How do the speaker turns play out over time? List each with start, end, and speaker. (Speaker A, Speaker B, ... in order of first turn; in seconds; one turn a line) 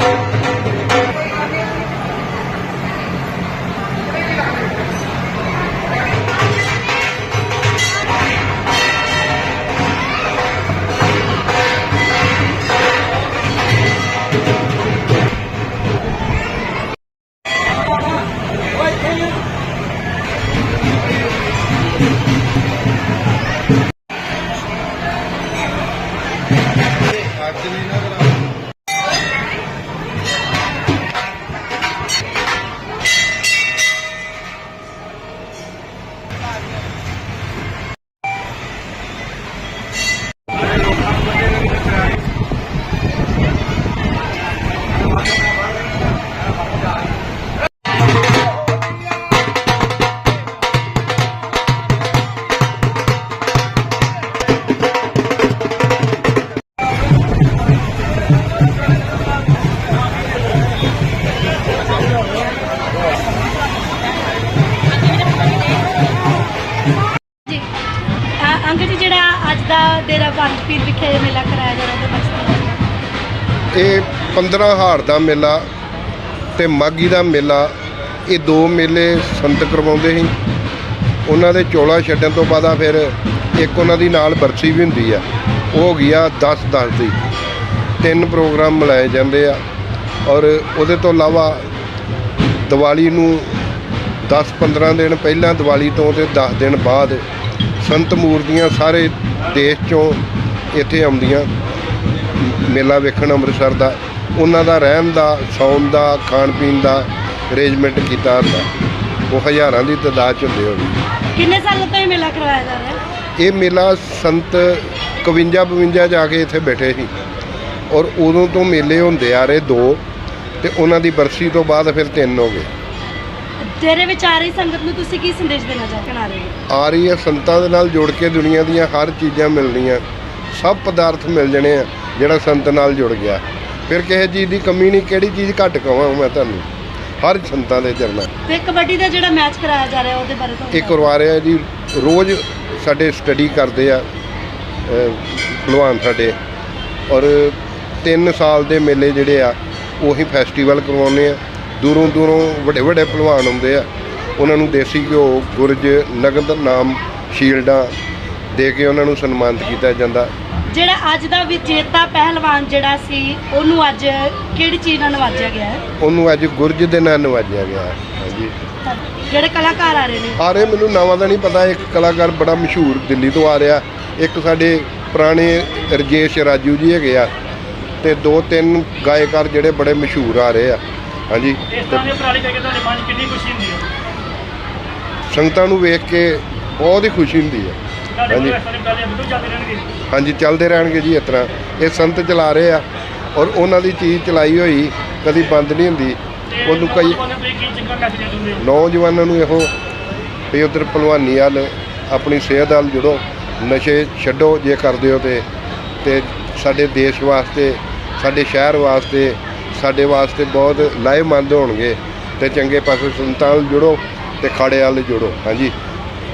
Speaker A: 68.4-72.7
Speaker B: 73.7-75.6
Speaker B: 76.5-77.7
Speaker B: 78.3-80.3
Speaker B: 81.2-87.2
Speaker B: 88.0-89.6
Speaker B: 90.2-91.7
Speaker B: 92.7-93.5
Speaker B: 94.2-97.2
Speaker B: 97.8-101.5
Speaker B: 102.3-108.7
Speaker B: 109.3-110.9
Speaker A: 111.3-113.0
Speaker B: 113.4-117.1
Speaker B: 117.9-120.0
Speaker B: 120.6-122.7
Speaker A: 123.6-126.5
Speaker B: 126.7-136.7
Speaker B: 137.2-138.3
Speaker A: 138.5-141.1
Speaker B: 140.7-144.0
Speaker B: 144.8-146.4
Speaker B: 147.1-153.8
Speaker B: 154.4-157.9
Speaker B: 158.5-160.3
Speaker A: 160.7-165.8
Speaker B: 166.0-168.5
Speaker A: 168.8-170.4
Speaker B: 170.4-177.3
Speaker B: 178.0-182.0
Speaker C: 181.7-183.8
Speaker B: 185.3-188.6
Speaker C: 188.2-189.8
Speaker B: 190.1-197.2
Speaker C: 196.6-198.6
Speaker B: 198.6-199.7
Speaker B: 200.5-205.4
Speaker B: 206.0-215.7